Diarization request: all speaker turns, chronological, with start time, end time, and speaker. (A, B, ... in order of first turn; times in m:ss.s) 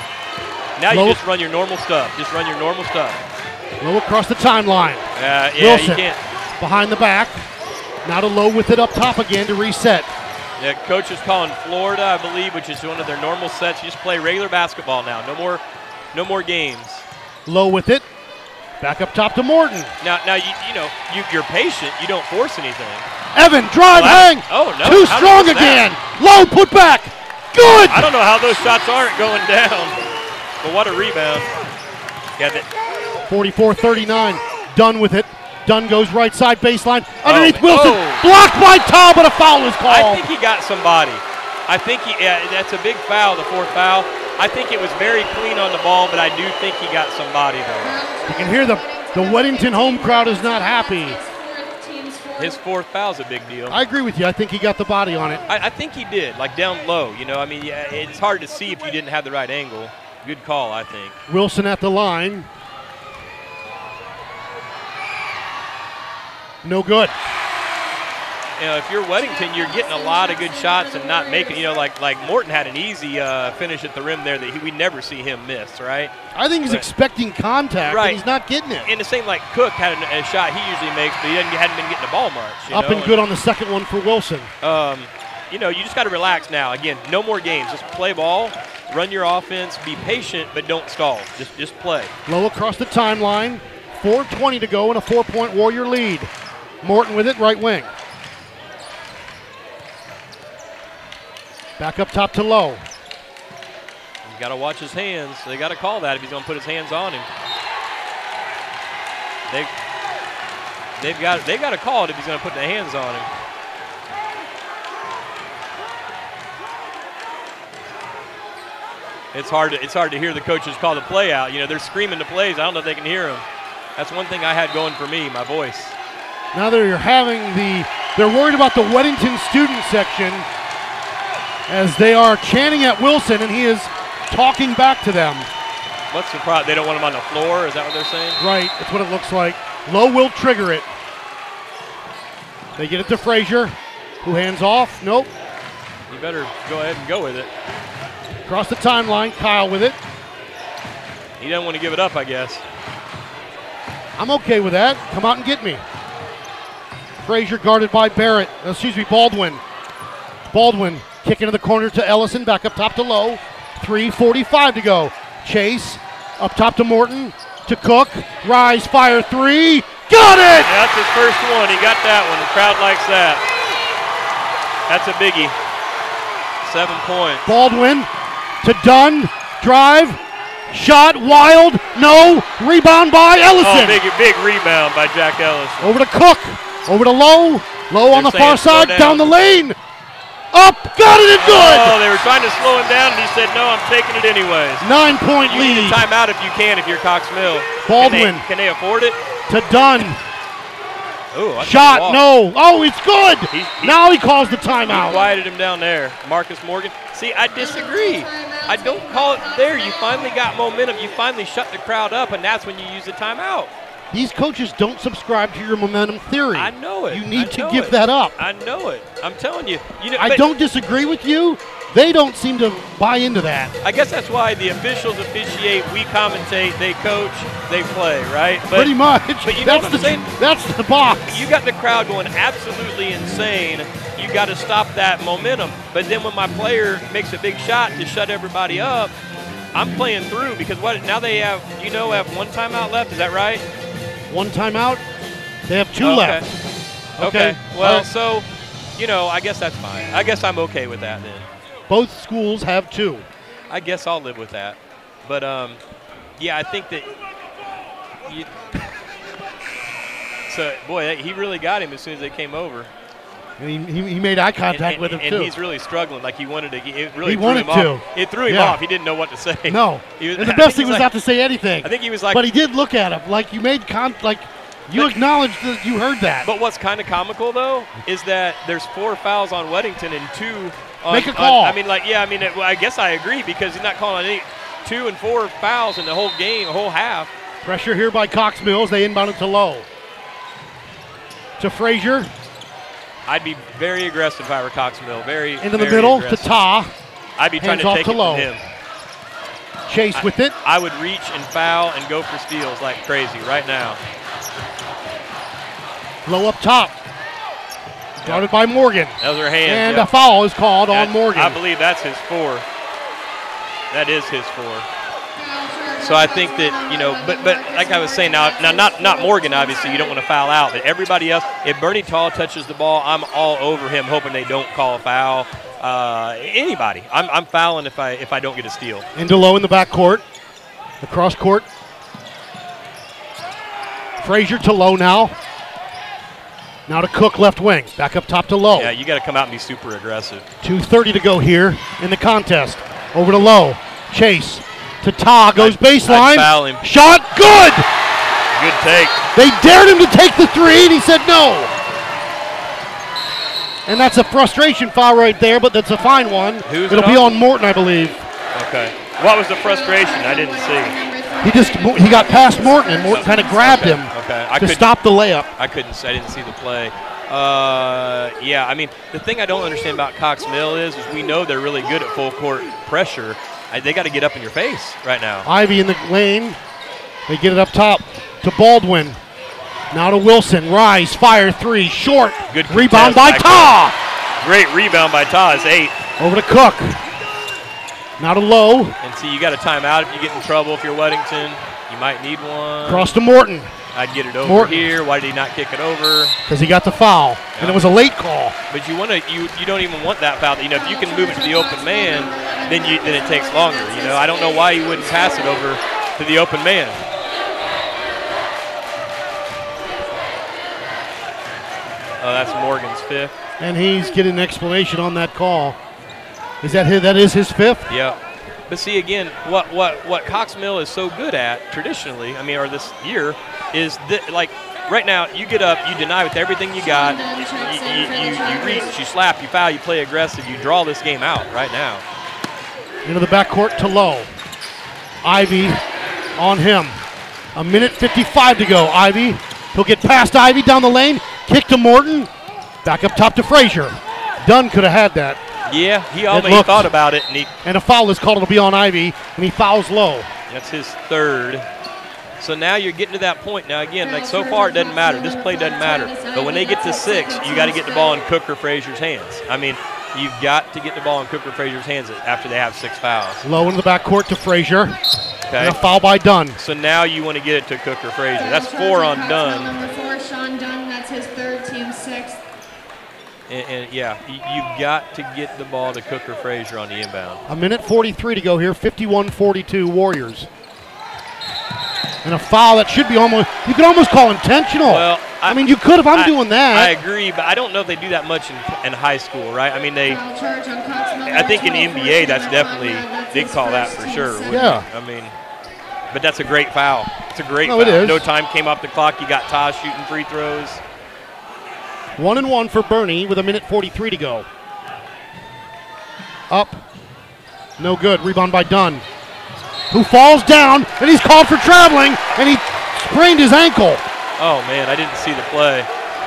0:00.8-0:03.2 A
0:00.9-0:01.2 B
0:03.8-0:06.0 B
0:05.1-0:06.2 A
0:06.6-0:07.4 B
0:08.0-0:10.1 B
0:10.6-0:15.6 A
0:16.1-0:17.0 A
0:17.4-0:18.0 B
0:18.8-0:19.9 B
0:20.0-0:23.0 A
0:23.3-0:28.1 B
0:23.9-0:25.9 A
0:27.9-0:30.0 A
0:30.6-0:31.5 A
0:32.4-0:32.7 A
0:33.2-0:40.3 B
0:37.2-0:38.3 A
0:39.9-0:48.0 A
0:47.8-0:52.6 C
0:48.3-0:51.2 B
0:52.4-0:53.8 A
0:53.7-0:55.4 B
0:55.5-1:01.2 A
1:01.3-1:02.5 B
1:06.6-1:07.2 B
1:08.6-1:16.1 A
1:09.2-1:11.8 C
1:16.3-1:18.9 B
1:17.8-1:18.2 A
1:18.8-1:23.2 A
1:22.7-1:24.5 B
1:24.6-1:32.1 A
1:32.3-1:36.3 B
1:36.8-1:37.9 B
1:41.8-1:42.9 B
1:44.2-1:47.3 A
1:51.0-1:53.3 A
1:59.3-2:03.4 A
2:04.0-2:06.0 A
2:06.5-2:10.5 B
2:11.7-2:15.5 B
2:16.1-2:18.4 A
2:18.4-2:20.9 B
2:22.8-2:25.3 B
2:26.1-2:27.5 A
2:28.4-2:30.0 B
2:31.4-2:32.6 A
2:34.2-2:35.8 B
2:37.2-2:39.6 B
2:40.5-2:50.7 B
2:50.6-2:53.4 A
2:54.9-2:55.6 A
2:56.6-2:57.5 A
2:57.4-2:58.1 B
2:58.6-3:04.0 B
3:03.6-3:05.9 A
3:05.8-3:09.8 B
3:08.1-3:09.3 A
3:10.5-3:12.0 B
3:11.4-3:14.9 A
3:14.8-3:16.1 B
3:15.5-3:19.2 A
3:17.8-3:18.4 B
3:19.5-3:20.2 B
3:21.3-3:22.2 A
3:21.6-3:25.2 B
3:23.5-3:24.0 A
3:24.9-3:33.7 A
3:27.6-3:30.4 C
3:34.1-3:38.4 B
3:36.5-3:40.4 A
3:40.2-3:43.7 B
3:43.8-3:50.3 A
3:48.7-3:51.5 B
3:51.2-3:59.1 A
3:59.7-4:03.7 A
4:04.3-4:05.0 B
4:05.7-4:06.5 B
4:06.0-4:06.5 A
4:07.2-4:08.1 B
4:07.2-4:11.5 A
4:11.9-4:13.3 B
4:13.7-4:15.8 A
4:16.4-4:17.1 A
4:18.2-4:18.5 A
4:20.5-4:22.9 A
4:23.6-4:25.5 B
4:24.7-4:31.1 A
4:27.2-4:28.8 B
4:29.7-4:36.5 B
4:31.8-4:32.5 A
4:36.4-4:47.3 A
4:41.1-4:41.8 B
4:47.6-4:49.9 B
4:51.6-4:52.3 B
4:53.3-4:56.5 A
4:55.6-4:56.9 B
4:57.4-4:58.6 A
4:57.6-4:58.5 B
4:59.9-5:00.6 B
5:00.1-5:04.0 A
5:06.2-5:07.0 B
5:08.2-5:11.6 B
5:09.2-5:10.1 A
5:10.9-5:12.7 A
5:13.9-5:14.9 A
5:15.4-5:20.2 C
5:16.0-5:29.1 A
5:29.1-5:30.2 B
5:31.0-5:31.7 B
5:34.2-5:35.4 B
5:36.9-5:38.9 B
5:38.8-5:40.4 A
5:40.6-5:47.9 B
5:45.6-5:46.8 A
5:48.6-5:49.2 A
5:49.3-5:51.7 B
5:53.9-5:58.2 B
5:56.6-5:57.4 A
5:58.5-6:01.0 A
5:59.6-6:03.9 C
6:01.4-6:05.5 B
6:03.1-6:04.9 A
6:05.6-6:15.5 A
6:15.4-6:16.6 B
6:17.3-6:19.2 B
6:19.9-6:24.0 B
6:22.5-6:23.8 A
6:24.4-6:26.0 A
6:26.2-6:27.0 B
6:28.2-6:29.0 B
6:29.0-6:33.1 A
6:32.8-6:33.7 B
6:33.9-6:36.4 A
6:34.4-6:35.0 B
6:36.5-6:38.6 B
6:37.6-6:37.8 A
6:38.7-6:47.0 A
6:40.7-6:45.7 C
6:52.2-6:53.3 A
6:53.6-6:55.8 B
6:56.6-6:57.9 B
6:57.9-7:12.0 A
7:06.8-7:09.0 C
7:13.0-7:14.3 B
7:15.2-7:15.8 B
7:16.4-7:17.0 B
7:17.5-7:22.3 B
7:22.8-7:25.4 B
7:25.7-7:27.5 A
7:26.3-7:26.9 B
7:27.6-7:30.3 B
7:30.5-7:31.7 A
7:32.4-7:43.4 A
7:34.0-7:38.2 C
7:43.4-7:45.0 B
7:45.5-7:45.8 A
7:45.6-7:46.6 B
7:46.6-7:49.7 A
7:48.4-7:52.4 C
7:53.5-7:57.4 A
7:57.5-8:00.5 B
8:02.2-8:06.9 B
8:04.9-8:10.2 A
8:10.0-8:14.8 C
8:11.2-8:15.3 A
8:14.5-8:14.9 B
8:16.1-8:20.8 A
8:17.6-8:18.2 B
8:22.2-8:24.5 B
8:26.5-8:26.8 B
8:27.8-8:29.0 B
8:29.9-8:34.0 B
8:34.4-8:35.9 A